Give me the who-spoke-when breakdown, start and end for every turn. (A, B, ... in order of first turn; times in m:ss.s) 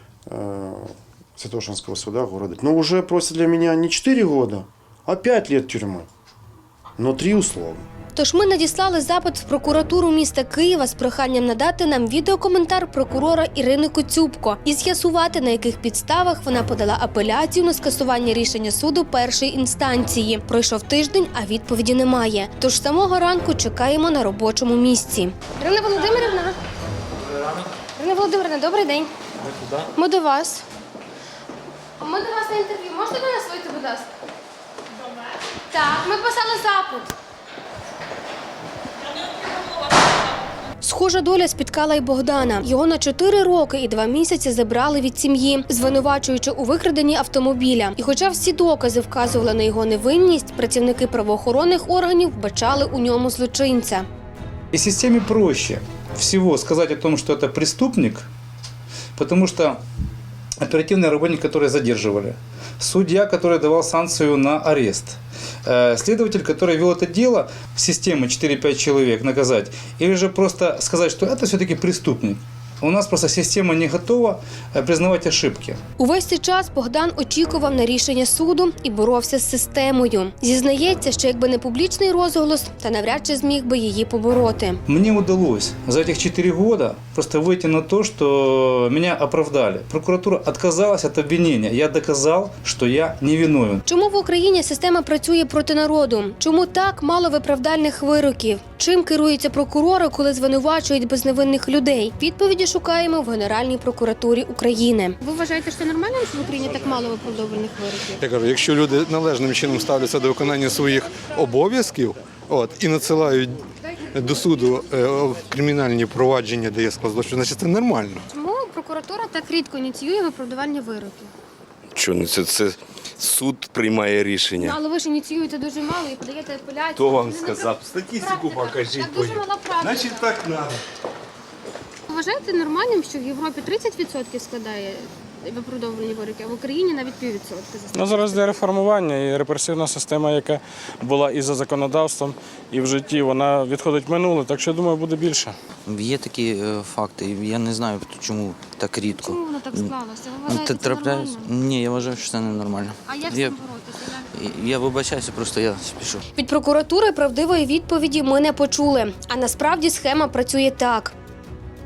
0:00.3-0:06.1 A
0:07.0-0:07.8 A
0:08.2-0:26.6 B
0:28.0-0:29.1 B
0:30.0-0:30.6 B
0:32.0-0:34.1 B
0:35.7-0:37.1 B
0:40.8-0:54.1 B
0:54.7-0:58.3 C
0:59.2-0:59.8 C
1:00.6-1:15.8 C
1:16.0-1:24.8 B
1:24.9-1:33.8 C
1:33.9-1:48.2 B
1:48.2-1:58.2 D
1:58.3-2:01.3 B
2:02.0-2:04.8 E
2:04.6-2:10.3 B
2:07.0-2:07.8 E
2:09.9-2:10.2 D
2:12.1-2:18.5 B
2:17.9-2:25.5 F
2:25.9-2:33.6 G
2:29.3-2:31.4 B
2:33.1-2:33.6 B
2:34.2-2:36.2 G
2:36.4-2:41.1 B